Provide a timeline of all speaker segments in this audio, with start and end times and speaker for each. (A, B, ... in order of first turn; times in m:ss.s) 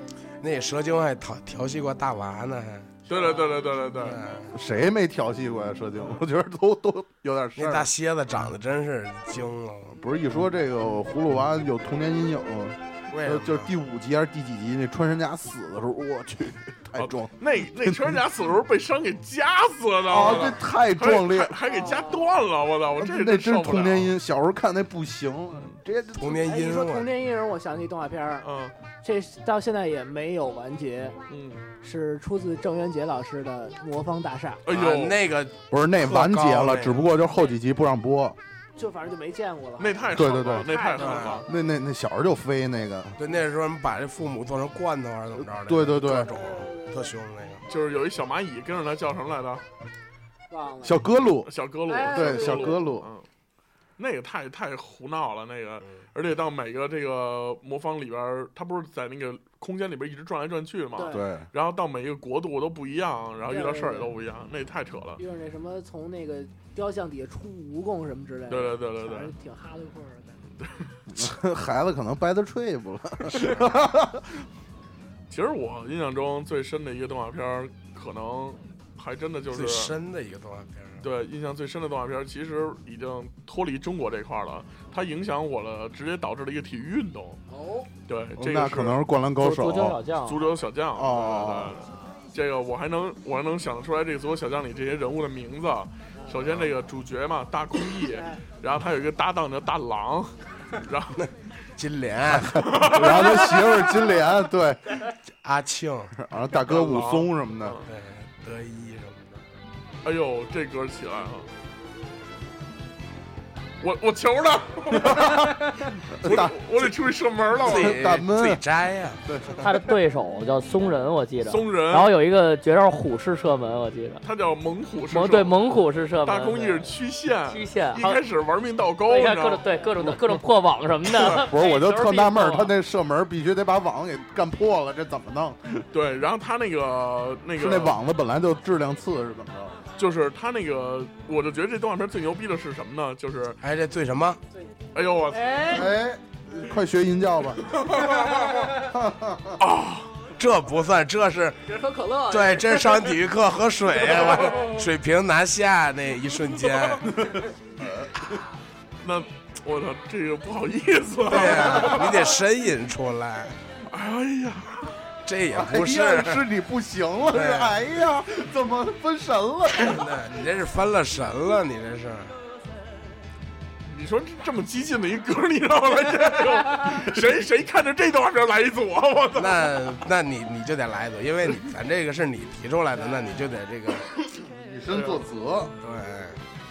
0:00.4-0:02.9 A
0:03.1-0:04.2 B
0:04.0-0:04.5 A
0:04.5-0:07.9 C
0:07.6-0:10.0 A
0:09.9-0:17.3 C
0:13.1-0:13.7 A
0:17.0-0:24.1 B
0:17.8-0:18.2 C
0:20.1-0:21.6 C
0:21.7-0:22.3 D
0:23.0-0:26.5 C
0:26.2-0:27.1 A
0:26.4-0:28.5 D
0:28.4-0:28.7 B
0:29.0-0:31.2 D
0:31.3-0:31.6 B
0:31.8-0:34.6 D
0:34.6-0:35.2 B
0:34.7-0:37.1 A
0:35.7-0:38.4 C
0:38.8-0:41.5 D
0:39.8-0:41.4 B
0:40.1-0:40.9 C
0:41.0-0:41.4 A
0:41.4-0:43.2 C
0:43.2-0:47.6 A
0:45.4-0:46.3 C
0:46.1-0:47.2 D
0:47.7-0:49.6 B
0:50.5-0:51.0 D
0:50.8-0:51.5 C
0:51.5-0:53.3 B
0:51.9-0:52.8 D
0:52.1-0:53.1 C
0:54.0-1:05.2 B
1:00.9-1:01.2 D
1:01.1-1:01.5 C
1:03.5-1:04.1 D
1:05.2-1:10.4 D
1:08.5-1:09.3 B
1:10.6-1:10.9 B
1:11.1-1:14.4 C
1:15.3-1:19.9 B
1:19.5-1:21.1 A
1:21.0-1:27.4 B
1:27.5-1:27.9 D
1:28.1-1:29.0 B
1:28.4-1:30.0 C
1:29.4-1:30.4 E
1:30.3-1:41.2 B
1:31.0-1:31.8 C
1:36.2-1:36.5 D
1:38.1-1:38.4 D
1:41.2-1:42.7 A
1:42.3-1:44.9 C
1:42.6-1:44.0 B
1:45.4-1:46.1 A
1:46.2-1:47.8 C
1:46.7-1:47.9 B
1:47.8-1:49.4 A
1:50.0-1:51.5 B
1:53.8-1:55.5 B
1:54.9-1:55.6 C
1:56.2-1:56.9 C
1:56.2-1:58.0 B
1:57.6-1:59.2 A
1:57.6-1:58.6 C
1:59.2-1:59.7 C
1:59.6-2:04.2 E
2:01.4-2:02.1 B
2:04.2-2:05.6 B
2:05.1-2:08.2 E
2:06.2-2:09.6 B
2:09.1-2:12.7 E
2:11.1-2:11.4 B
2:11.2-2:15.9 C
2:15.9-2:18.0 B
2:17.6-2:19.8 C
2:20.0-2:23.6 B
2:23.6-2:24.4 A
2:24.9-2:25.8 B
2:25.3-2:25.9 D
2:25.7-2:27.8 C
2:27.7-2:28.6 B
2:28.8-2:29.6 C
2:29.6-2:30.2 B
2:30.4-2:31.6 A
2:31.7-2:33.1 D
2:32.3-2:37.2 A
2:34.4-2:34.6 D
2:37.1-2:38.3 C
2:39.0-2:42.3 B
2:41.3-2:43.6 A
2:43.9-2:44.9 B
2:45.2-2:46.4 A
2:45.5-2:50.1 C
2:47.3-2:47.8 A
2:49.8-2:52.4 A
2:53.9-2:59.9 B
2:59.4-3:04.1 A
3:03.0-3:03.4 D
3:04.5-3:05.7 C
3:04.9-3:05.2 B
3:05.8-3:06.4 A